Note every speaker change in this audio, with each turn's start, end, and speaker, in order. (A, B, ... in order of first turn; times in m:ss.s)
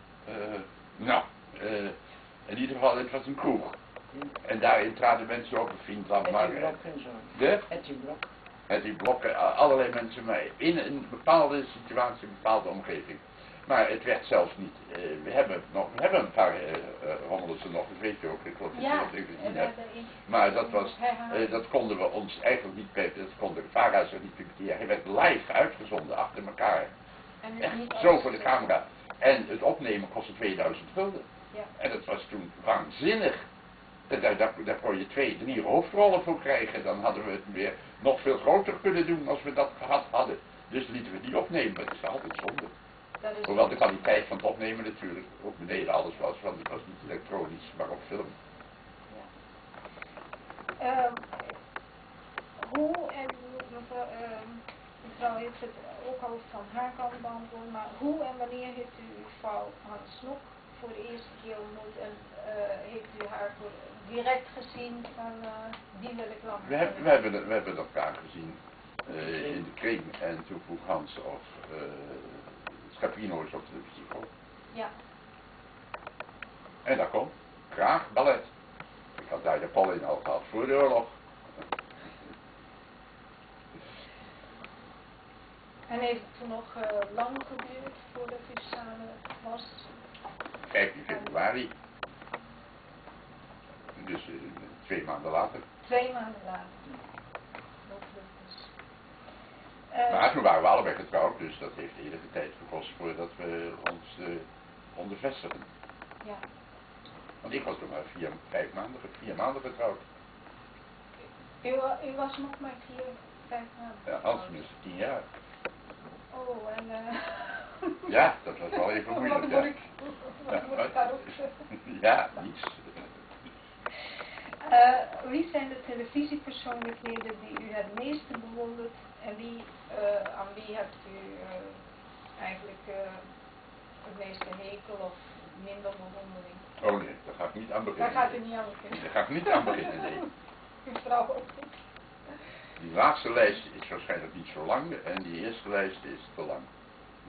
0:00.2-0:02.0 A
0:02.5-0:03.8 A
0:04.4-0:06.8 A
0:06.2-0:08.3 B
0:07.3-0:07.6 A
0:08.7-0:19.7 A
0:18.7-0:21.6 C
0:20.2-0:26.9 A
0:27.4-0:28.7 C
0:27.6-0:31.2 A
0:31.8-0:33.4 A
0:34.1-0:42.7 A
0:43.2-0:44.0 C
0:43.4-0:48.4 A
0:50.8-0:51.5 C
0:52.6-1:07.2 C
1:06.6-1:14.3 A
1:16.8-1:18.5 A
1:19.1-1:21.2 A
1:25.9-1:29.9 C
1:30.7-1:31.7 A
1:31.1-1:31.4 C
1:33.9-1:35.6 A
1:35.8-1:36.9 C
1:37.8-1:38.7 C
1:39.9-1:40.4 C
1:40.1-1:45.7 A
1:47.4-1:50.0 A
1:51.6-1:54.6 C
1:54.0-1:55.2 A
1:56.3-1:58.2 C
1:58.0-1:59.7 A
1:58.7-2:01.5 C
2:00.5-2:00.9 A
2:01.7-2:03.0 A
2:04.6-2:11.8 C
2:12.4-2:13.2 C
2:14.0-2:16.6 C
2:16.8-2:20.3 A
2:18.0-2:20.3 C
2:20.8-2:21.7 C
2:22.8-2:26.7 A